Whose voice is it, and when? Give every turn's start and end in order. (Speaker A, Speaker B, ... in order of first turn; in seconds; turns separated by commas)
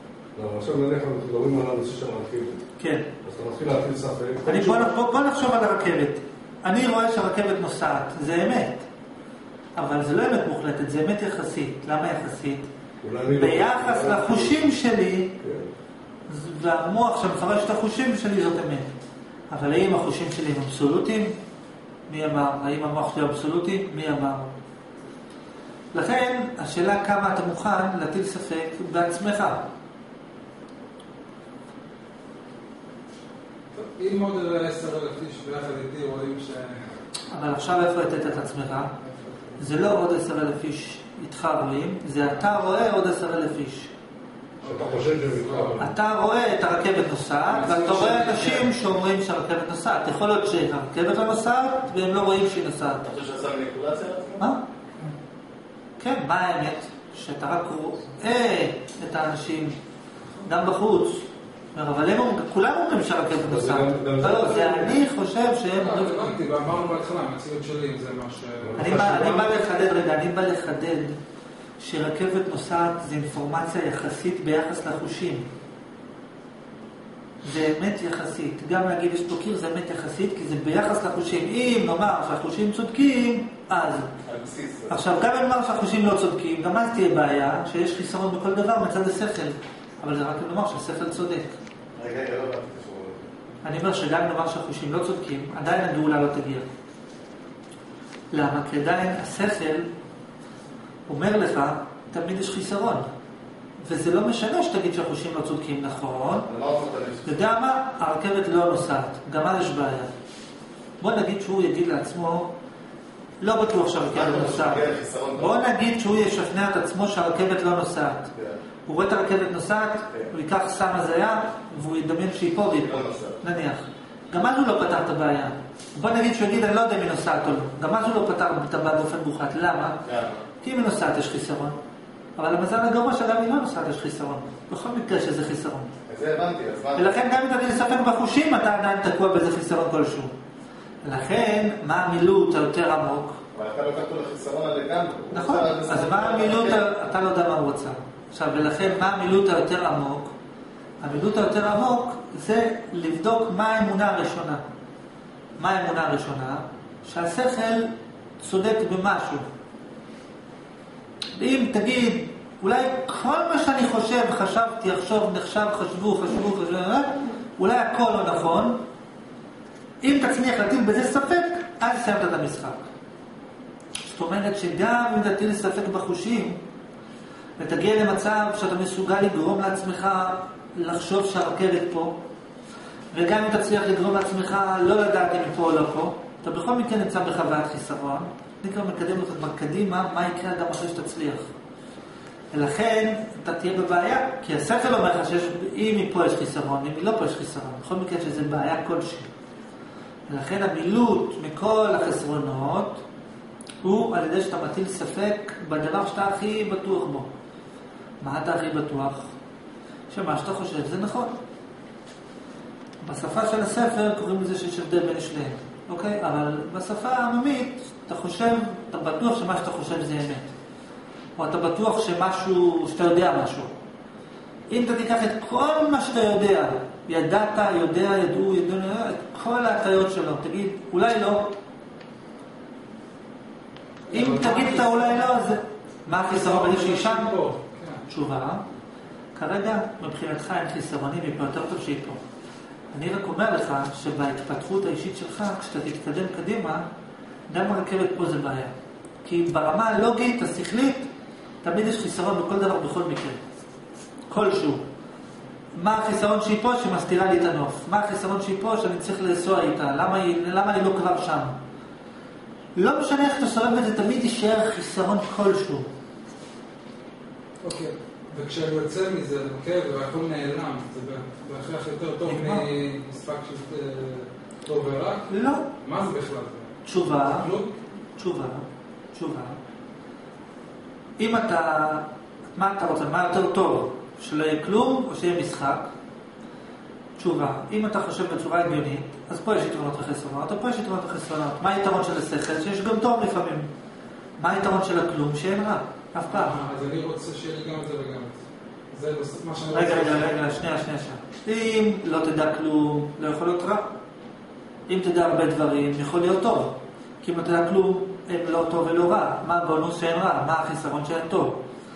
Speaker A: 0.3-2.6, Speaker B: 2.8-3.1, Speaker A: 3.2-4.9, Speaker B: 4.5-8.8, Speaker B: 9.8-12.7, Speaker A: 13.0-14.7, Speaker B: 13.3-15.4, Speaker A: 15.4-15.7, Speaker B: 16.3-18.9, Speaker B: 19.5-21.4, Speaker B: 22.1-24.5, Speaker B: 25.9-29.6, Speaker C: 33.7-36.9, Speaker B: 37.3-38.9, Speaker B: 39.6-43.9, Speaker C: 44.6-45.8, Speaker A: 44.6-45.9, Speaker B: 45.8-53.0, Speaker C: 47.5-48.7, Speaker D: 53.0-54.5, Speaker B: 56.0-59.8, Speaker B: 60.4-66.3, Speaker A: 63.4-65.0, Speaker C: 65.8-68.8, Speaker A: 68.6-69.5, Speaker B: 68.8-71.2, Speaker B: 71.8-75.5, Speaker B: 77.4-84.1, Speaker D: 84.2-85.0, Speaker B: 84.9-91.5, Speaker D: 92.0-93.3, Speaker B: 93.6-96.7, Speaker B: 98.3-99.9, Speaker B: 101.1-103.1, Speaker B: 103.8-106.5, Speaker D: 106.5-107.4, Speaker B: 107.2-110.1, Speaker B: 111.0-112.5, Speaker B: 113.4-114.8, Speaker D: 114.1-115.5, Speaker B: 115.3-118.3, Speaker B: 118.8-130.0, Speaker D: 122.8-123.4, Speaker D: 130.0-130.4, Speaker B: 130.6-131.8, Speaker B: 132.4-135.9, Speaker D: 136.1-137.1, Speaker B: 136.9-140.3, Speaker B: 141.0-143.4, Speaker D: 143.5-146.8, Speaker B: 145.3-150.3, Speaker B: 151.0-154.6, Speaker B: 155.6-159.4, Speaker B: 161.3-168.8, Speaker B: 170.0-172.8, Speaker B: 174.0-176.6, Speaker B: 177.6-182.2, Speaker B: 183.1-191.5, Speaker B: 192.5-199.3, Speaker B: 200.3-203.0, Speaker B: 203.8-207.3, Speaker B: 208.2-209.3, Speaker B: 210.1-211.4, Speaker B: 213.0-220.5, Speaker B: 221.4-223.7, Speaker B: 224.7-231.5, Speaker C: 234.1-235.4, Speaker B: 234.1-237.3, Speaker C: 236.1-238.0, Speaker B: 238.1-238.6, Speaker B: 239.3-242.2, Speaker B: 242.9-246.9, Speaker B: 247.5-248.7, Speaker B: 249.2-251.1, Speaker B: 251.6-253.4, Speaker B: 254.3-254.8, Speaker B: 255.8-261.6, Speaker B: 262.8-265.9, Speaker C: 267.6-277.7, Speaker B: 272.2-272.7, Speaker B: 275.3-275.6, Speaker B: 276.8-277.5, Speaker B: 278.2-279.6, Speaker B: 281.2-285.9, Speaker B: 287.2-293.7, Speaker B: 294.4-296.6, Speaker C: 296.3-298.4, Speaker C: 298.9-300.5, Speaker B: 299.7-303.9, Speaker B: 304.9-311.6